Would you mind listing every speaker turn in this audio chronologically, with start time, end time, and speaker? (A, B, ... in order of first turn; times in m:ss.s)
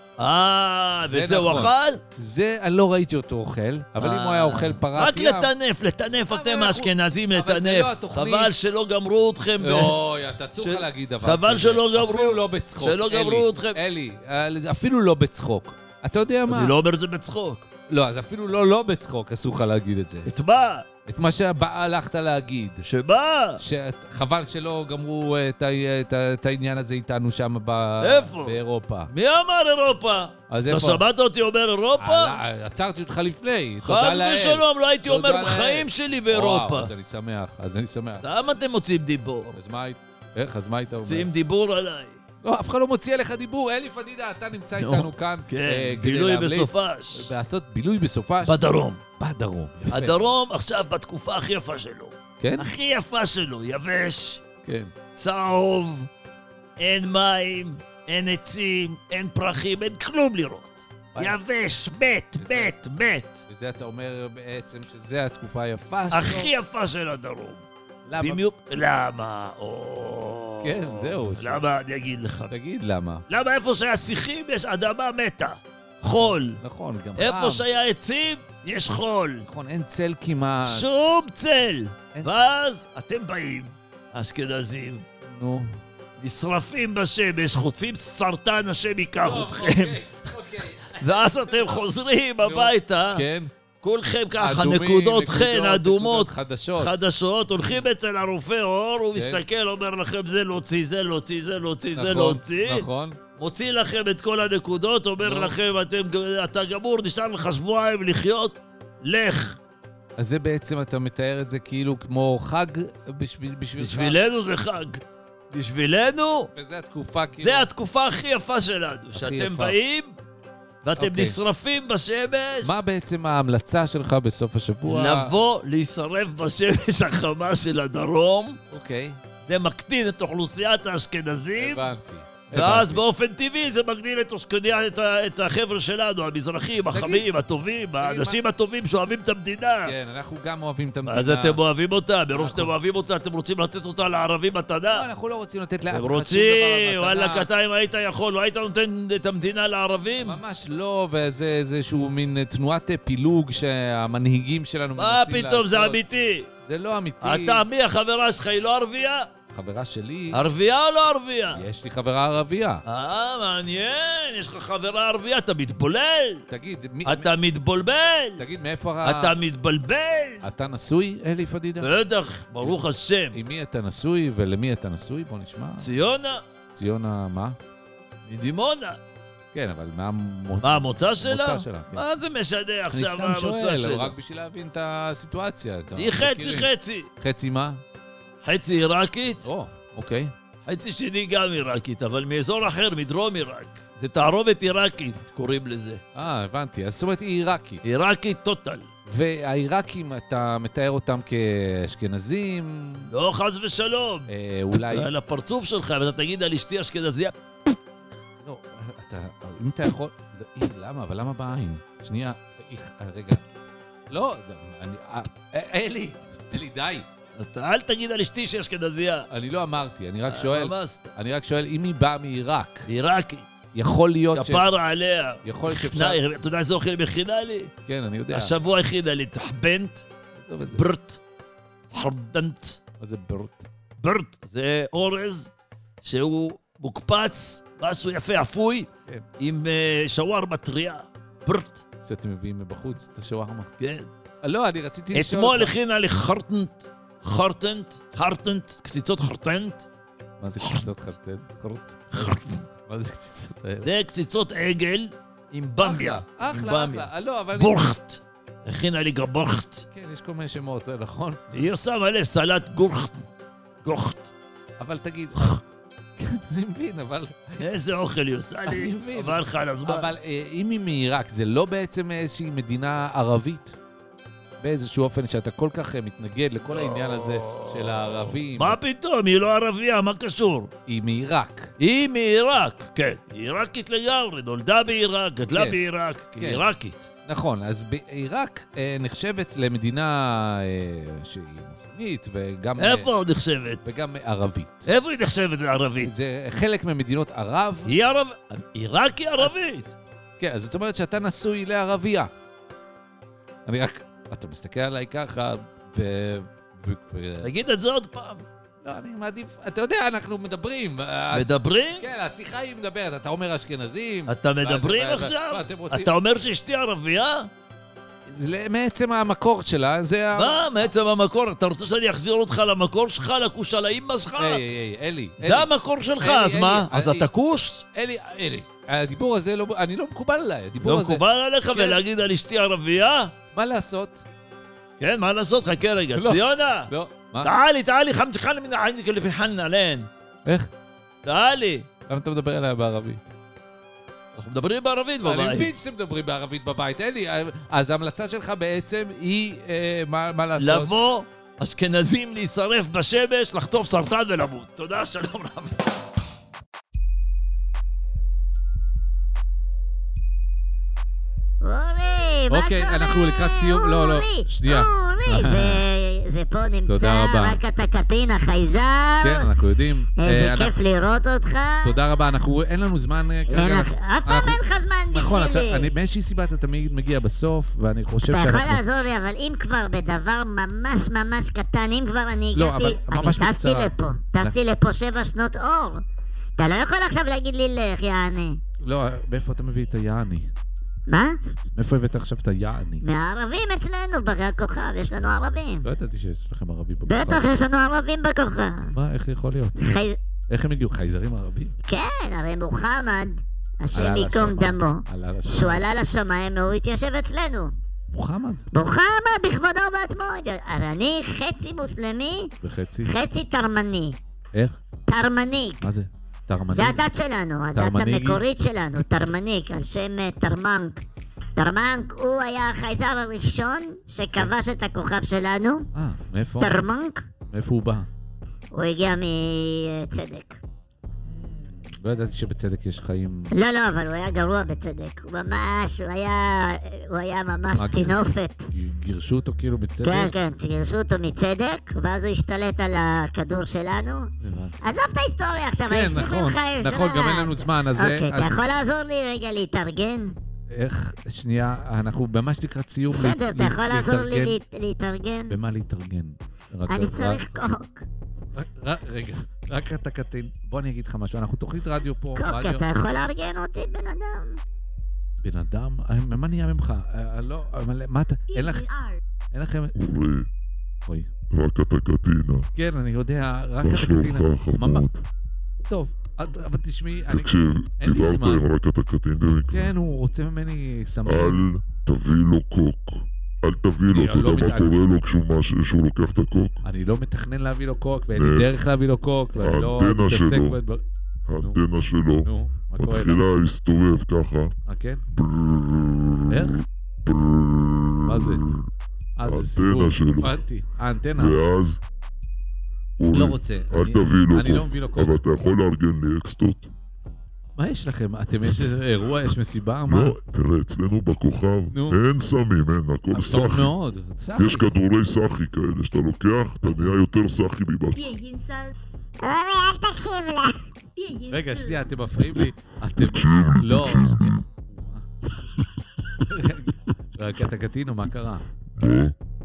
0:00.2-0:02.0 A
0:01.0-0:05.5 B
0:04.0-0:10.0 A
0:06.3-0:08.5 B
0:09.6-0:16.8 B
0:10.6-0:13.8 A
0:16.5-0:17.7 A
0:17.9-0:20.3 B
0:20.3-0:20.9 A
0:21.1-0:22.8 B
0:22.8-0:23.6 A
0:23.6-0:29.1 B
0:28.0-0:32.4 A
0:30.5-0:31.0 B
0:32.0-0:38.2 B
0:33.8-0:36.9 A
0:38.2-0:39.6 A
0:39.6-0:41.3 B
0:41.0-0:42.2 A
0:42.4-0:48.6 B
0:44.8-0:47.3 A
0:48.4-0:49.0 A
0:49.2-0:50.3 B
0:49.9-0:54.4 A
0:52.4-0:52.7 B
0:54.6-0:54.9 B
0:55.2-0:56.1 A
0:56.8-1:03.4 A
1:02.4-1:02.7 B
1:03.5-1:06.5 B
1:06.1-1:07.6 A
1:08.1-1:08.5 B
1:08.2-1:12.5 A
1:10.6-1:11.6 B
1:12.5-1:13.2 B
1:13.3-1:16.6 A
1:16.6-1:17.6 B
1:17.2-1:19.5 A
1:19.5-1:20.9 B
1:20.6-1:25.0 A
1:25.3-1:25.7 B
1:26.2-1:30.0 A
1:29.2-1:31.9 B
1:31.0-1:33.2 A
1:32.4-1:33.5 B
1:33.8-1:49.6 A
1:34.4-1:37.0 B
1:39.2-1:39.4 B
1:42.0-1:43.2 B
1:45.2-1:45.6 B
1:50.2-1:54.2 B
1:53.8-1:56.5 A
1:56.6-1:57.7 B
1:57.4-2:00.1 A
1:59.1-1:59.8 B
2:00.8-2:02.7 A
2:01.0-2:01.4 B
2:02.6-2:05.3 B
2:04.8-2:08.6 A
2:08.7-2:09.2 B
2:09.4-2:11.8 A
2:11.6-2:13.0 B
2:12.5-2:19.9 A
2:16.9-2:17.2 B
2:18.0-2:18.4 B
2:19.8-2:21.6 B
2:21.1-2:25.1 A
2:22.3-2:22.7 B
2:24.9-2:27.5 B
2:25.9-2:30.4 A
2:30.2-2:36.0 B
2:35.0-2:36.5 A
2:36.6-2:37.6 B
2:37.2-2:39.3 A
2:39.5-2:40.4 B
2:40.3-2:41.6 A
2:41.5-2:42.8 B
2:42.9-2:46.4 A
2:46.5-2:47.3 B
2:47.0-2:48.4 A
2:48.4-2:49.4 B
2:49.0-2:50.4 A
2:50.4-2:51.9 B
2:51.8-2:53.4 A
2:53.3-2:55.9 B
2:55.8-2:56.4 A
2:56.8-2:57.6 B
2:58.3-2:59.0 A
2:59.5-3:02.0 B
3:00.6-3:04.1 A
3:02.9-3:07.8 B
3:06.0-3:07.1 A
3:08.4-3:09.4 A
3:09.4-3:10.3 B
3:10.7-3:16.0 A
3:16.2-3:17.8 B
3:17.8-3:18.9 A
3:19.1-3:23.1 B
3:23.1-3:24.3 A
3:24.3-3:25.1 B
3:24.8-3:27.3 A
3:28.4-3:33.4 B
3:34.1-3:37.1 B
3:37.4-3:39.3 A
3:39.3-3:42.9 B
3:40.3-3:41.1 A
3:42.9-3:43.5 A
3:43.7-3:44.7 B
3:44.3-3:47.7 A
3:45.4-3:46.2 B
3:47.9-3:48.5 B
3:48.3-3:50.0 A
3:50.4-3:50.9 B
3:50.7-3:51.2 A
3:51.9-3:52.8 A
3:53.0-3:53.7 B
3:54.0-3:55.5 A
3:56.0-3:58.9 A
3:59.4-4:01.8 A
4:02.1-4:03.7 B
4:03.8-4:04.1 A
4:04.4-4:05.7 B
4:05.1-4:09.9 A
4:10.4-4:13.9 B
4:10.6-4:10.9 A
4:12.1-4:12.6 A
4:13.8-4:19.8 A
4:15.8-4:18.0 B
4:19.9-4:21.4 B
4:21.5-4:23.2 A
4:23.8-4:24.3 A
4:24.8-4:25.6 B
4:26.2-4:27.7 B
4:27.6-4:30.1 A
4:28.7-4:33.8 B
4:34.6-4:38.8 B
4:36.7-4:40.7 A
4:40.9-4:41.7 B
4:41.8-4:47.1 A
4:45.5-4:45.8 B
4:46.4-4:46.7 B
4:47.3-4:53.1 B
4:52.8-4:53.8 A
4:53.8-4:54.9 B
4:54.9-4:56.2 A
4:56.0-4:57.9 B
4:57.9-4:59.9 A
4:59.4-4:59.7 B
5:00.4-5:02.3 B
5:03.7-5:07.5 B
5:07.4-5:08.4 A
5:08.8-5:16.1 B
5:11.3-5:12.1 A
5:14.3-5:17.5 A
5:18.3-5:20.9 B
5:20.4-5:24.6 A
5:24.4-5:25.7 B
5:25.4-5:27.8 A
5:26.2-5:27.3 B
5:28.0-5:32.0 B
5:30.8-5:33.3 A
5:33.6-5:34.2 B
5:35.0-5:36.9 A
5:36.2-5:37.5 B
5:37.4-5:40.1 A
5:41.2-5:41.9 A
5:42.1-5:43.3 B
5:44.4-5:45.7 A
5:45.2-5:50.9 B
5:50.6-5:55.8 A
6:01.6-6:09.5 C
6:02.5-6:05.8 B
6:06.9-6:07.6 B
6:09.2-6:10.7 B
6:10.2-6:12.0 C
6:11.8-6:14.6 B
6:13.5-6:15.9 C
6:15.1-6:18.8 B
6:18.3-6:26.0 C
6:22.6-6:24.6 B
6:26.6-6:28.6 C
6:28.8-6:30.5 B
6:31.1-6:31.4 C
6:31.8-6:33.0 B
6:33.0-6:35.9 C
6:35.8-6:37.5 B
6:37.1-6:38.9 C
6:38.9-6:40.0 B
6:39.8-6:40.2 C
6:40.5-6:41.8 B
6:41.9-6:47.7 C
6:43.9-6:45.8 B
6:48.1-6:48.6 B
6:48.7-6:52.5 C
6:52.6-6:53.1 B
6:53.0-6:54.2 C
6:55.1-6:55.8 C
6:55.8-6:57.0 B
6:56.7-7:01.0 C
6:57.8-6:58.4 B
7:01.6-7:05.9 C
7:06.0-7:06.8 B
7:06.6-7:07.3 C
7:07.5-7:08.1 B
7:08.7-7:10.6 C
7:11.3-7:13.5 B
7:13.5-7:18.7 C
7:17.8-7:18.2 B
7:18.7-7:20.4 B
7:20.0-7:24.3 C
7:24.4-7:24.8 B
7:24.8-7:30.4 C
7:25.9-7:28.6 B
7:30.7-7:34.6 B
7:33.1-7:35.6 C
7:35.5-7:37.4 B
7:36.9-7:38.0 C
7:38.6-7:42.9 B
7:42.4-7:44.6 C
7:45.4-7:48.9 B
7:48.5-7:49.2 D
7:49.5-7:50.0 B
7:50.0-7:50.5 E
7:51.5-7:52.7 E
7:52.8-7:55.1 B
7:53.8-7:55.2 E
7:55.9-7:58.6 B
7:57.3-7:59.9 E
7:59.7-8:01.6 B
8:01.3-8:06.8 E
8:04.1-8:04.9 B
8:06.8-8:11.0 B
8:08.4-8:08.7 E
8:09.6-8:10.8 E
8:11.5-8:14.8 E
8:12.4-8:13.5 B
8:14.9-8:15.2 B
8:15.3-8:18.9 E
8:16.5-8:16.8 B
8:18.2-8:18.6 B
8:19.4-8:21.6 B
8:19.4-8:20.6 E
8:21.4-8:22.0 E
8:23.2-8:26.9 E
8:23.3-8:25.4 B
8:27.8-8:30.4 B
8:30.1-8:33.9 E
8:31.9-8:32.2 B
8:33.3-8:34.9 B
8:34.6-8:38.3 E
8:36.8-8:37.1 B
8:38.2-8:39.0 D
8:39.4-8:40.8 C
8:41.2-8:42.1 D
8:41.5-8:45.2 B
8:43.2-8:44.6 E
8:46.4-8:48.7 B
8:48.9-8:49.4 E